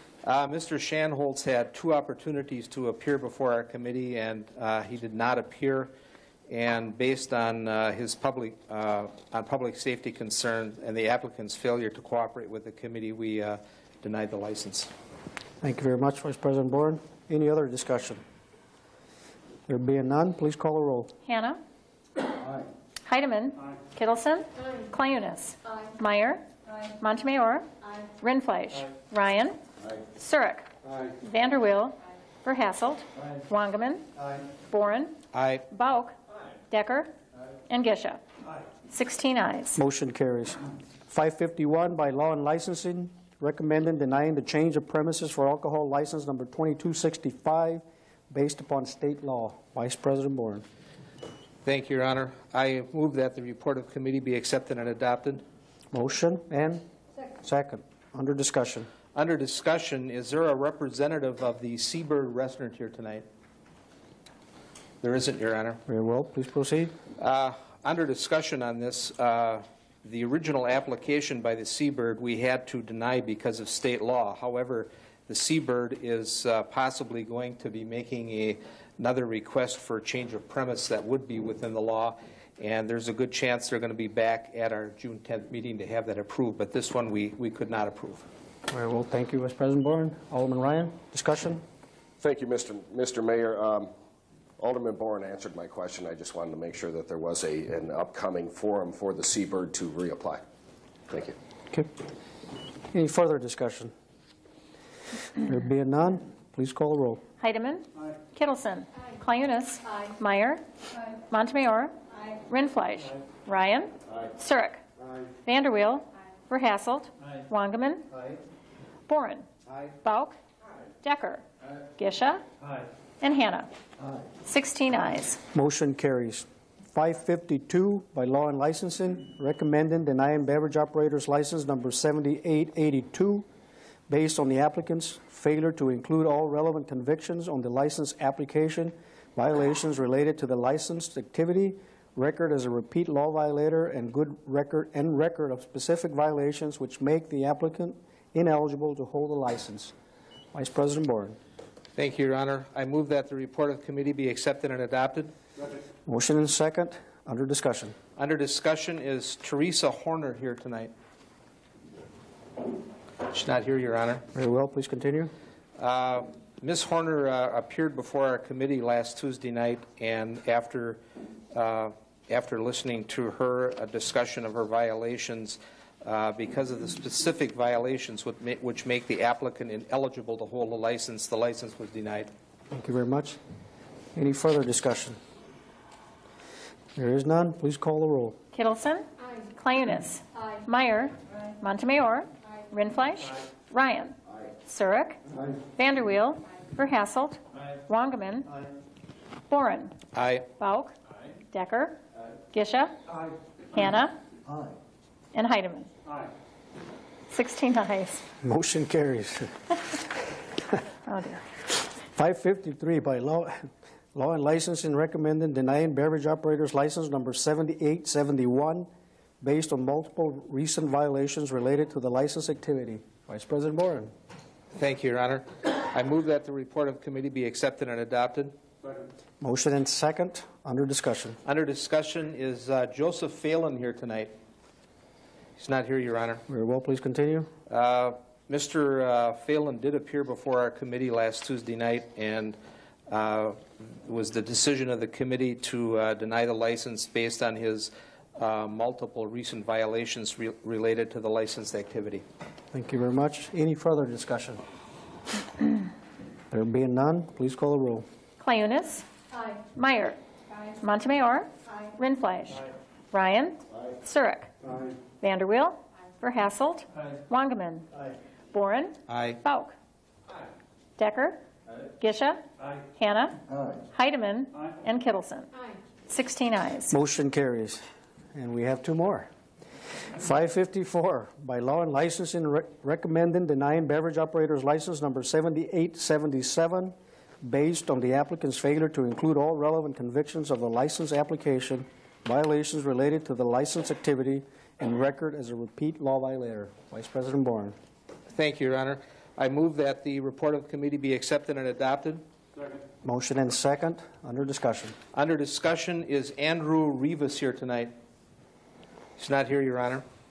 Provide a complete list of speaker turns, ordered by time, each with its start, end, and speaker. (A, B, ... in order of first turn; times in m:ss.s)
0:00.2-0:05.9 A
0:06.5-0:14.9 A
0:15.6-0:18.2 B
0:19.7-0:21.1 B
0:21.3-0:21.6 C
0:23.0-0:26.5 C
0:27.0-0:27.7 C
0:28.2-0:29.6 C
0:30.2-0:30.7 C
0:31.2-0:34.0 C
0:34.7-0:35.2 C
0:35.3-0:35.6 A
0:35.7-0:36.2 C
0:36.7-0:37.1 C
0:37.7-0:38.2 C
0:38.9-0:39.8 C
0:39.8-0:50.6 B
0:51.6-0:55.4 A
0:55.9-0:56.9 B
0:57.4-0:58.9 B
0:59.1-1:03.3 A
1:05.0-1:05.8 A
1:05.9-1:07.0 B
1:07.2-1:28.3 A
1:28.7-1:31.6 B
1:32.2-1:33.9 D
1:34.6-1:40.4 D
1:41.1-1:41.4 D
1:42.9-1:43.9 B
1:45.4-1:47.2 B
1:47.4-1:50.6 C
1:51.2-1:54.8 C
1:55.4-1:58.1 C
1:59.1-1:59.5 C
2:00.0-2:00.4 C
2:01.0-2:01.4 C
2:02.0-2:02.4 C
2:03.2-2:03.7 C
2:04.4-2:05.4 C
2:05.5-2:13.5 B
2:14.1-2:29.9 B
2:30.5-2:31.4 B
2:32.0-2:35.3 A
2:36.1-2:38.0 B
2:38.2-2:40.9 A
2:43.3-2:44.2 A
2:44.3-2:45.3 B
2:45.8-2:51.0 A
2:51.5-3:02.3 A
3:02.7-3:03.4 B
3:04.2-3:05.2 B
3:07.0-3:08.4 B
3:08.5-3:15.2 C
3:15.8-3:18.5 C
3:19.5-3:20.0 C
3:20.1-3:20.5 A
3:20.6-3:20.9 C
3:21.5-3:22.0 C
3:22.5-3:23.0 C
3:23.7-3:24.2 C
3:25.3-3:25.9 C
3:27.3-3:28.2 C
3:28.4-3:29.5 B
3:31.1-3:31.4 C
3:32.1-3:38.9 B
3:39.4-3:44.1 B
3:44.8-3:48.6 A
3:49.4-3:51.4 B
3:51.4-3:54.4 A
3:55.6-3:56.4 A
3:56.5-3:57.5 B
3:57.7-4:02.6 A
4:03.1-4:12.2 A
4:12.7-4:14.6 B
4:16.5-4:18.1 B
4:18.4-4:19.1 C
4:19.6-4:20.2 C
4:20.8-4:24.5 C
4:25.2-4:27.9 C
4:28.5-4:29.8 C
4:29.1-4:29.4 A
4:31.0-4:31.4 C
4:32.0-4:32.4 C
4:32.9-4:33.4 C
4:33.9-4:35.5 C
4:36.1-4:37.0 C
4:36.9-4:39.3 B
4:40.1-4:57.8 B
4:58.3-5:02.2 A
5:03.0-5:05.0 B
5:05.1-5:07.9 A
5:09.2-5:10.0 A